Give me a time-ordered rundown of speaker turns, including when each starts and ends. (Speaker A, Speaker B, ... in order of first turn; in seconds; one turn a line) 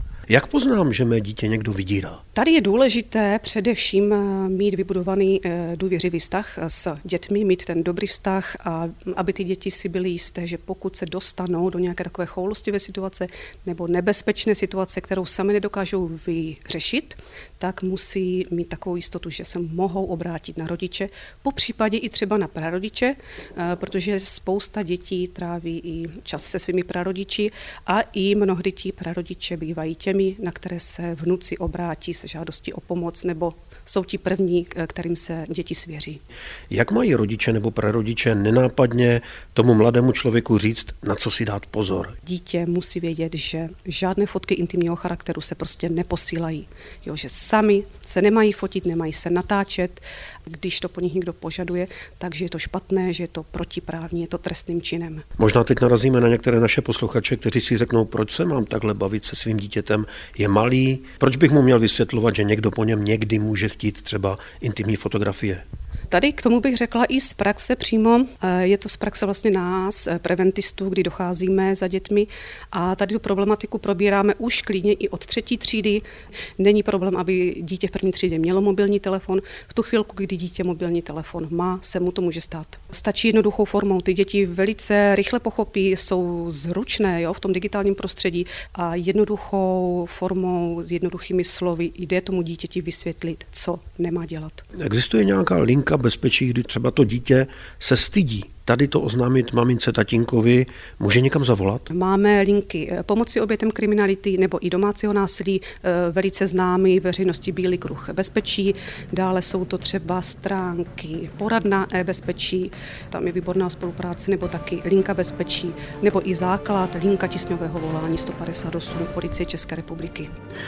Speaker A: 0.3-2.2
Speaker B: 2.4-36.2
Speaker A: 36.7-42.1
Speaker B: 42.2-55.2
Speaker A: 55.4-65.6
Speaker B: 66.1-76.0
Speaker B: 76.6-94.7
Speaker A: 94.8-101.9
Speaker B: 101.9-120.3